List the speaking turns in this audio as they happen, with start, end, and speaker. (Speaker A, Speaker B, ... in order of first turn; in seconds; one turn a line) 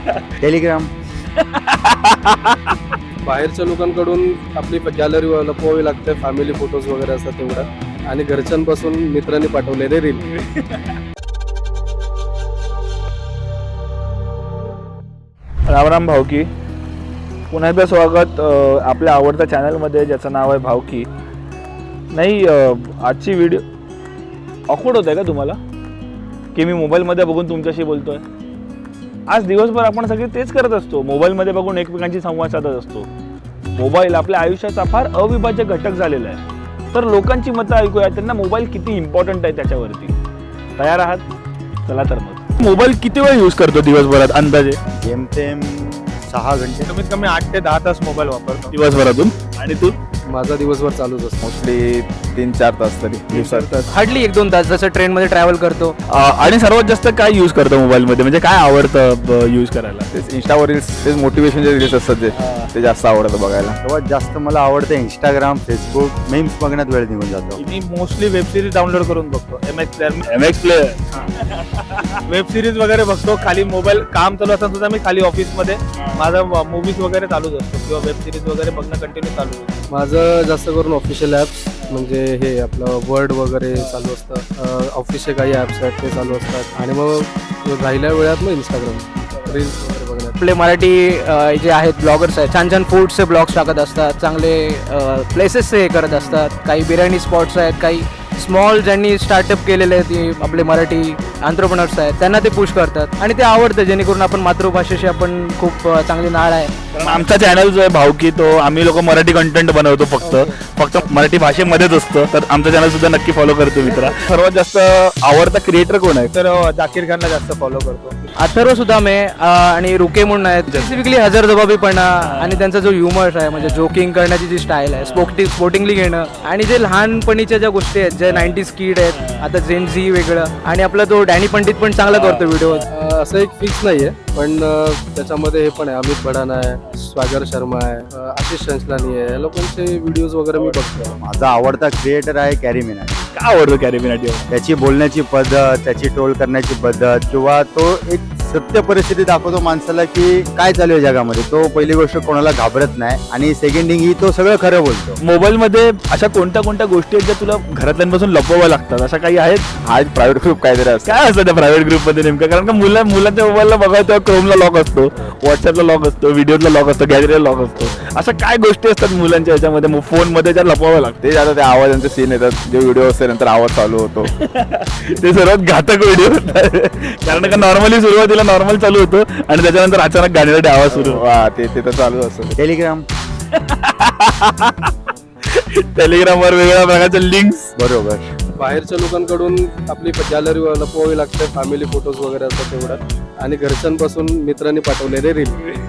Speaker A: 0.4-0.9
Speaker B: 1.5-2.5
Speaker C: 3.2-10.2
Speaker B: 15.7-16.5
Speaker B: 17.5-21.1
Speaker B: 22.1-23.6
Speaker B: 24.7-25.6
Speaker B: 26.5-28.2
Speaker B: 29.3-33.1
Speaker B: 33.7-36.4
Speaker B: 36.9-40.1
Speaker B: 40.8-41.2
Speaker B: 41.9-44.8
Speaker A: 45.0-46.9
Speaker D: 46.9-48.7
Speaker B: 48.7-49.9
Speaker C: 50.3-51.4
Speaker E: 51.4-53.8
Speaker C: 53.3-53.8
Speaker F: 53.9-55.9
Speaker B: 56.1-60.0
Speaker E: 60.1-63.8
Speaker B: 62.4-62.7
Speaker A: 63.8-67.6
Speaker D: 67.6-70.2
Speaker B: 70.2-72.2
Speaker D: 72.3-79.8
Speaker C: 79.9-90.4
Speaker F: 90.4-106.7
Speaker B: 100.4-100.7
Speaker B: 107.0-116.3
Speaker F: 110.2-110.6
Speaker F: 113.8-114.1
Speaker D: 116.3-118.2
Speaker F: 118.4-132.8
Speaker C: 132.9-141.2
Speaker A: 141.2-143.2
Speaker B: 143.3-144.5
Speaker A: 144.5-155.2
Speaker B: 155.2-159.6
Speaker E: 159.8-161.2
Speaker B: 161.1-171.2
Speaker E: 171.2-174.3
Speaker B: 174.4-181.2
Speaker E: 180.9-182.5
Speaker A: 182.6-183.0
Speaker B: 183.6-184.9
Speaker B: 185.5-187.7
Speaker A: 187.8-188.3
Speaker C: 188.6-195.6